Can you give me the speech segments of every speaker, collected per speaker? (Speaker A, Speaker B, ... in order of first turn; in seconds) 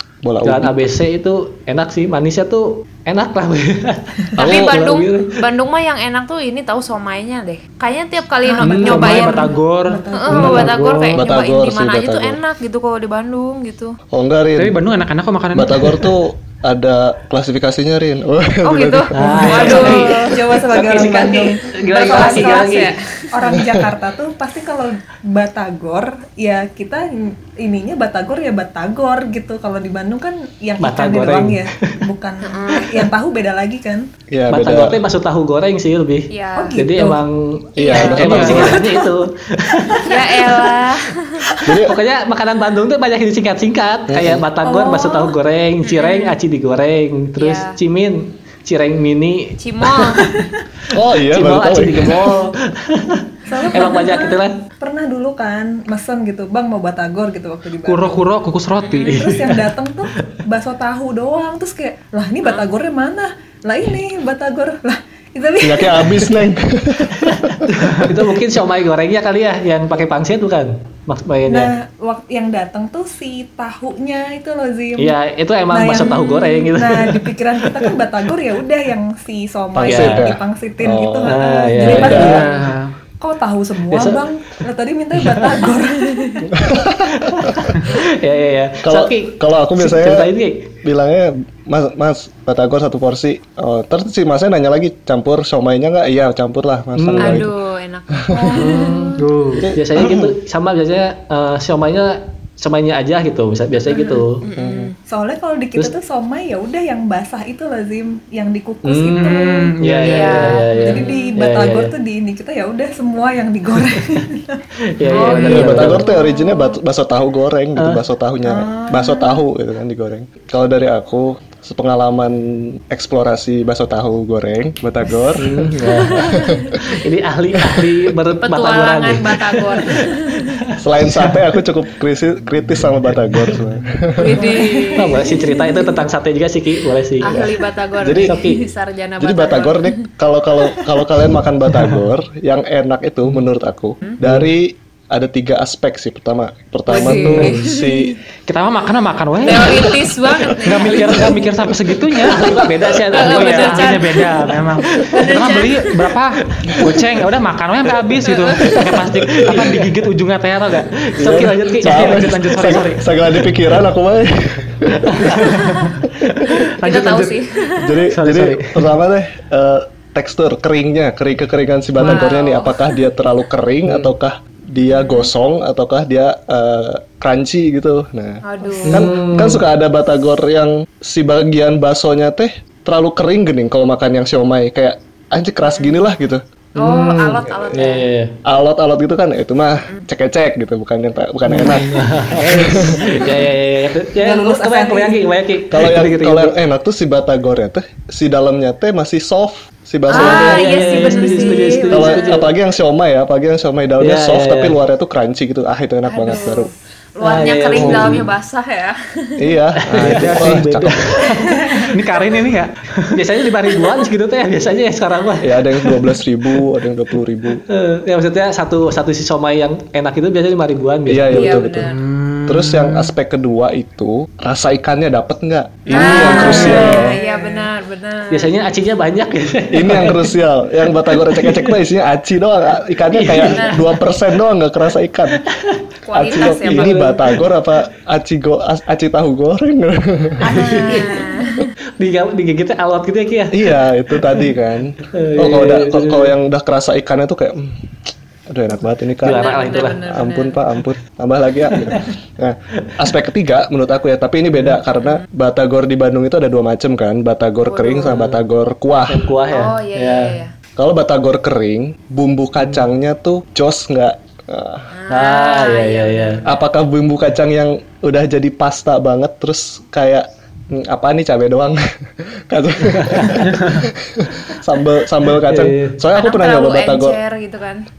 Speaker A: 0.2-0.8, 4.4-4.8, 11.1-12.4, 14.1-14.8, 15.5-19.9, 23.6-23.9, 34.3-35.0, 37.8-38.8, 41.6-42.0, 44.1-44.4, 50.9-52.4, 65.6-67.7, 79.8-82.4, 86.6-87.7, 88.8-90.3, 90.8-97.5, 98.1-98.6, 99.6-100.3, 104.6-104.9, 115.4-126.8, 130.8-134.5, 137.3-138.4, 139.2-148.2, 161.2-165.3, 167.8-186.4, 188.4-193.2, 195.7-200.9, 201.9-206.7, 207.7-208.3, 209.4-211.0, 215.4-217.6, 221.1-221.9, 222.5-227.1, 229.7-235.4, 236.1-240.4, 243.5-247.8, 248.5-249.5, 250.0-259.3, 260.8-264.9, 266.4-277.2
Speaker B: 0.4-5.3, 8.6-9.2, 10.3-10.6, 19.1-22.9, 30.8-32.0, 34.5-40.4, 41.8-50.3, 51.2-54.6, 59.0-60.3, 67.2-71.7, 75.0-77.9, 79.8-80.3, 81.2-82.5, 83.9-84.2, 85.2-85.6, 86.8-90.8, 97.0-97.5, 98.5-104.4, 108.8-111.9, 114.8-116.2, 125.4-131.4, 133.3-133.6, 134.9-137.5, 138.1-138.7, 144.2-144.5, 147.1-147.7, 150.9-151.3, 152.2-154.2, 154.8-155.2, 158.7-159.9, 161.0-162.7, 165.0-166.6, 178.8-179.7, 186.8-188.4, 191.5-196.6, 200.1-202.5, 204.0-204.8, 207.2-208.3, 209.8-211.4, 213.1-216.2, 217.7-221.6, 226.0-227.0, 228.3-230.3, 231.0-231.8, 233.1-233.9, 235.5-237.5, 240.4-241.2, 242.0-244.5, 245.1-246.3, 249.2-250.1, 251.7-252.1, 258.0-258.4, 259.1-260.4, 265.1-266.5, 272.9-273.4, 275.3-276.0
Speaker C: 4.4-9.5, 10.1-14.0, 18.6-23.5, 32.4-33.0, 36.3-36.8, 37.8-38.7, 40.0-41.5, 45.8-46.4, 47.4-47.8, 49.6-50.3, 58.8-59.2, 62.4-62.7, 97.2-99.0, 104.4-105.0, 110.0-111.4, 115.1-116.8, 126.2-126.8, 128.4-130.6, 134.2-136.0, 137.2-140.1, 146.9-148.2, 149.4-151.3, 153.1-156.1, 158.3-158.8, 165.5-165.9, 166.8-168.0, 172.0-173.0, 174.9-175.3, 178.4-179.1, 185.7-186.0, 186.8-188.1, 200.1-202.4, 206.1-209.6, 221.3-222.0, 225.9-228.5, 233.4-233.9, 236.1-237.2, 240.6-241.7, 249.2-250.7, 255.0-255.2, 257.7-258.2, 259.5-260.5, 264.9-266.5, 276.1-277.8
Speaker D: 8.4-10.8, 19.2-34.1, 36.5-37.2, 38.0-39.0, 41.5-41.8, 44.6-45.3, 53.5-58.2, 59.0-66.5, 71.5-75.2, 75.7-86.5, 98.3-98.9, 105.1-109.7, 110.8-114.6, 118.5-119.4, 134.3-135.6, 193.0-193.4, 194.2-195.3, 201.2-201.6, 211.4-211.9, 226.0-227.7, 240.4-241.5
Speaker E: 8.7-11.2, 14.6-16.1, 38.0-38.8, 57.8-59.2, 81.8-82.9, 99.2-99.7, 109.2-110.7, 115.3-115.7, 147.0-147.5, 148.5-152.6, 153.1-163.1, 165.4-166.0, 166.8-167.4, 168.1-168.8, 210.0-213.2, 221.8-223.1, 273.4-273.9